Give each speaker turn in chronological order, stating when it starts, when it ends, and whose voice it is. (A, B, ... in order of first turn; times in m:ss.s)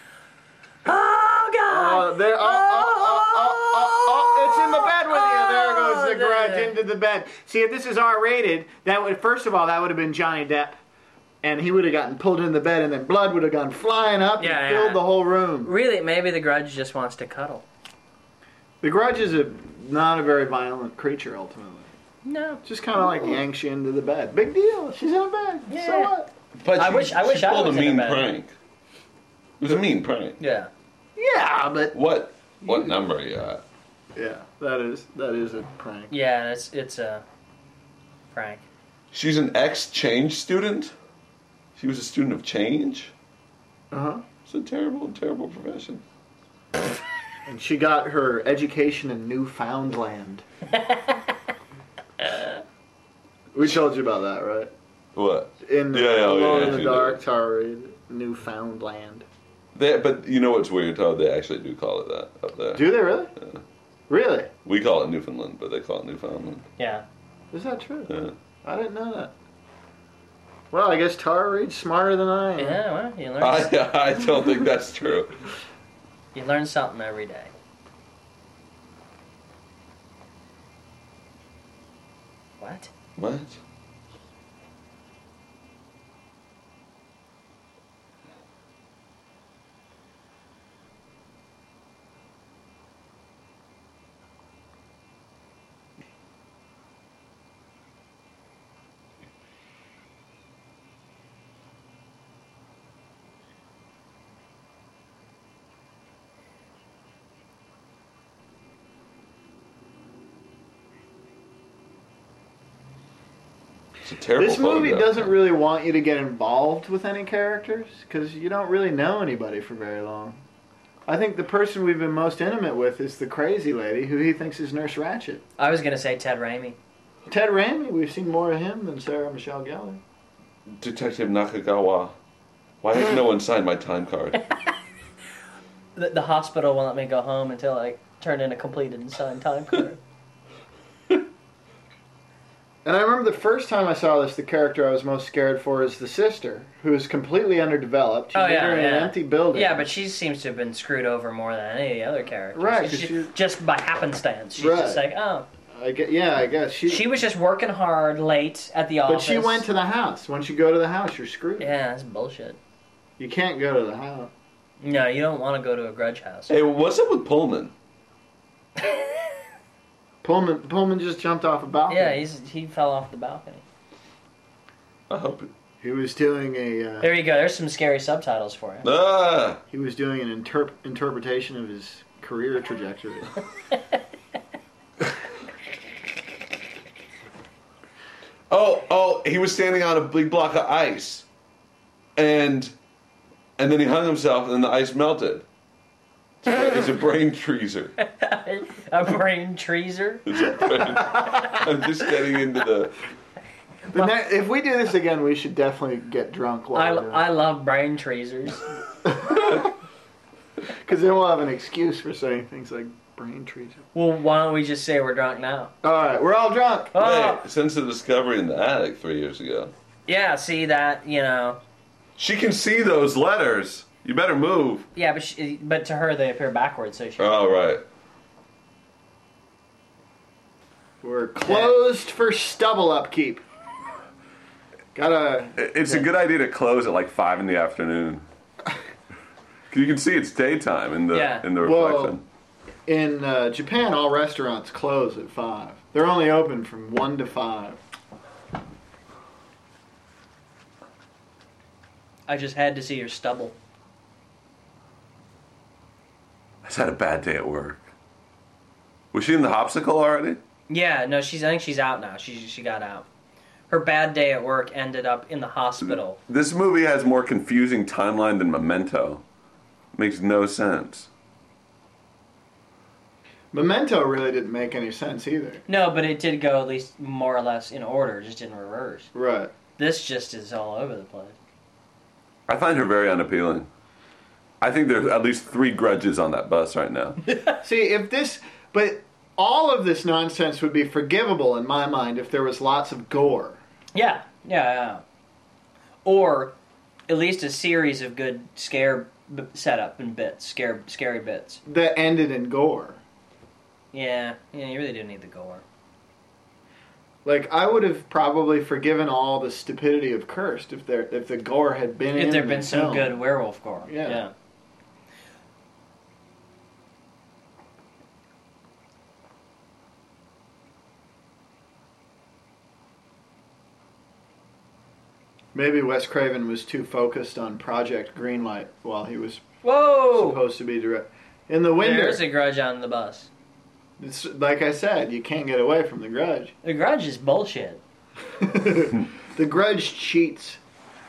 0:00.8-0:06.7 A
0:01.7-0:10.8 B
0:11.4-0:15.7 B
0:14.4-0:15.0 A
0:15.6-0:17.6 A
0:18.8-0:21.9 B
0:22.2-0:22.6 A
0:22.6-0:26.3 B
0:25.7-0:26.1 A
0:26.6-0:28.5 C
0:26.8-0:28.3 A
0:29.6-0:30.4 C
0:30.4-0:30.7 A
0:31.2-0:31.9 B
0:31.9-0:33.6 C
0:32.6-0:32.9 B
0:34.1-0:36.1 B
0:36.1-0:37.2 A
0:38.3-0:38.6 A
0:39.1-0:40.9 C
0:41.8-0:43.1 C
0:43.9-0:44.2 B
0:44.4-0:46.0 C
0:47.4-0:50.4 B
0:50.9-0:51.2 A
0:53.5-0:54.7 B
0:55.1-0:57.2 C
0:55.6-0:59.2 B
0:59.7-1:03.6 C
1:02.7-1:03.3 B
1:04.1-1:04.5 B
1:04.6-1:06.7 C
1:06.8-1:07.0 A
1:07.5-1:08.1 B
1:08.1-1:08.3 C
1:08.6-1:09.3 B
1:10.7-1:12.8 B
1:12.6-1:13.8 A
1:13.4-1:15.3 C
1:16.3-1:17.5 A
1:22.6-1:22.9 A
1:23.2-1:23.6 C
1:54.0-1:55.3 C
1:54.4-2:00.4 B
2:01.1-2:05.4 B
2:05.6-2:06.8 A
2:07.3-2:10.0 B
2:10.8-2:12.1 C
2:12.8-2:14.4 C
2:16.0-2:20.0 A
2:22.8-2:29.9 B
2:28.3-2:35.4 A
2:32.5-2:33.3 B
2:34.5-2:35.0 B
2:35.7-2:37.1 B
2:36.9-2:39.7 A
2:39.0-2:41.7 B
2:41.6-2:42.6 A
2:43.2-2:44.3 B
2:44.8-2:46.5 A
2:46.5-2:47.7 C
2:50.2-2:52.2 B
2:51.9-2:53.6 A
2:55.1-2:55.5 C
2:55.8-2:57.1 B
2:57.0-2:58.8 A
2:58.8-2:59.6 C
2:59.7-3:03.3 B
3:08.5-3:11.2 C
3:12.2-3:12.7 C
3:13.6-3:15.4 C
3:16.4-3:17.9 C
3:18.1-3:20.4 A
3:20.3-3:23.0 C
3:20.8-3:21.4 B
3:23.9-3:27.2 B
3:26.7-3:28.6 A
3:29.0-3:29.7 B
3:30.6-3:33.8 B
3:33.9-3:35.7 A
3:35.8-3:36.9 B
3:36.9-3:37.4 A
3:37.0-3:39.7 C
3:40.1-3:41.6 A
3:42.2-3:44.8 C
3:45.0-3:47.4 A
3:47.2-3:47.8 C
3:51.0-3:53.4 B
3:51.5-3:51.7 A
3:54.9-3:56.0 B
3:55.6-3:58.2 C
3:59.7-4:02.2 C
4:01.1-4:01.5 A
4:01.6-4:02.1 B
4:02.9-4:07.8 B
4:12.3-4:13.5 A
4:16.6-4:17.8 C
4:19.1-4:20.4 C
4:20.7-4:23.0 A
4:23.7-4:26.2 A
4:25.8-4:29.2 C
4:29.9-4:31.1 C
4:33.5-4:35.6 B
4:35.7-4:39.1 A
4:39.1-4:39.5 B
4:39.8-4:41.4 A
4:42.5-4:43.7 C
4:44.6-4:47.2 C
4:47.6-4:53.6 B
4:53.9-4:55.0 A
4:56.0-4:56.5 A
4:57.1-5:01.6 A
5:01.6-5:03.0 B
5:03.9-5:05.6 A
5:07.2-5:13.1 B
5:12.1-5:14.3 A
5:13.8-5:14.2 B
5:25.5-5:29.5 B
5:29.6-5:30.4 A
5:30.1-5:32.2 B
5:31.8-5:33.3 A
5:34.0-5:36.5 B
5:36.6-5:37.8 A
5:38.3-5:40.6 B